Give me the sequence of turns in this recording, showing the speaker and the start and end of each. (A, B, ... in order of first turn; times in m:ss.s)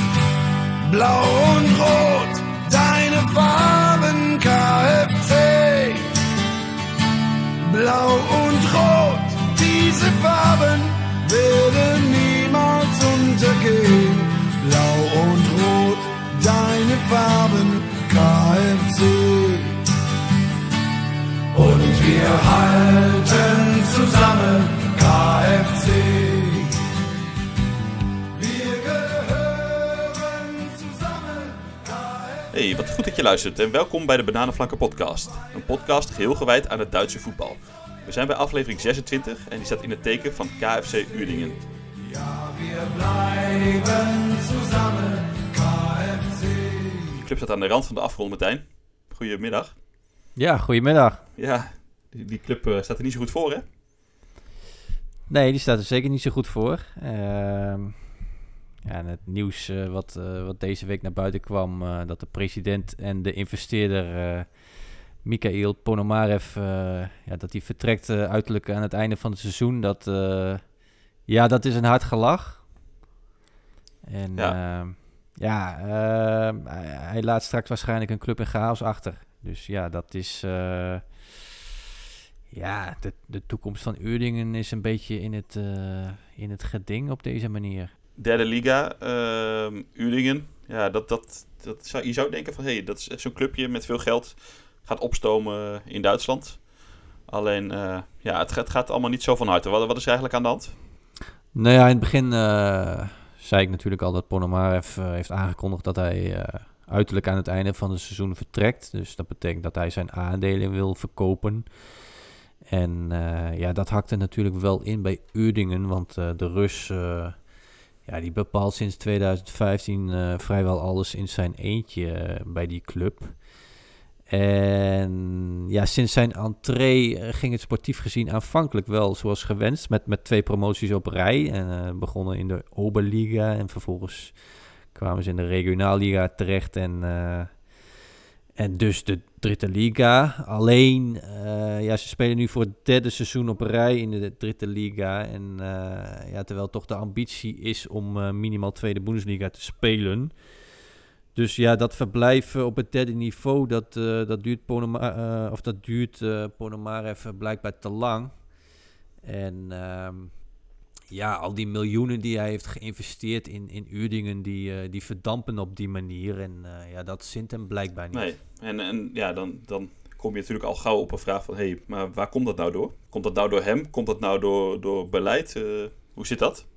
0:00.8-0:06.2 A
0:07.6-0:19.8 A
0:21.5-0:26.8 A
0:28.3-0:32.5 A
0:32.5-0:41.6 B
0:42.0-0:47.2 A
0:47.2-0:49.8 B
0:50.4-0:51.3 C
0:51.4-0:53.6 B
0:55.3-0:58.2 C
0:58.8-1:12.7 C
1:14.0-1:21.4 C
1:22.5-1:27.9 C
1:28.2-1:40.8 B
1:41.5-1:52.1 C
1:52.7-1:57.5 C
1:58.0-2:03.7 C
2:04.3-2:17.9 C
2:18.6-2:30.7 C
2:31.3-2:38.6 C
2:39.2-2:40.4 C
2:41.1-2:48.4 C
2:48.1-2:56.7 B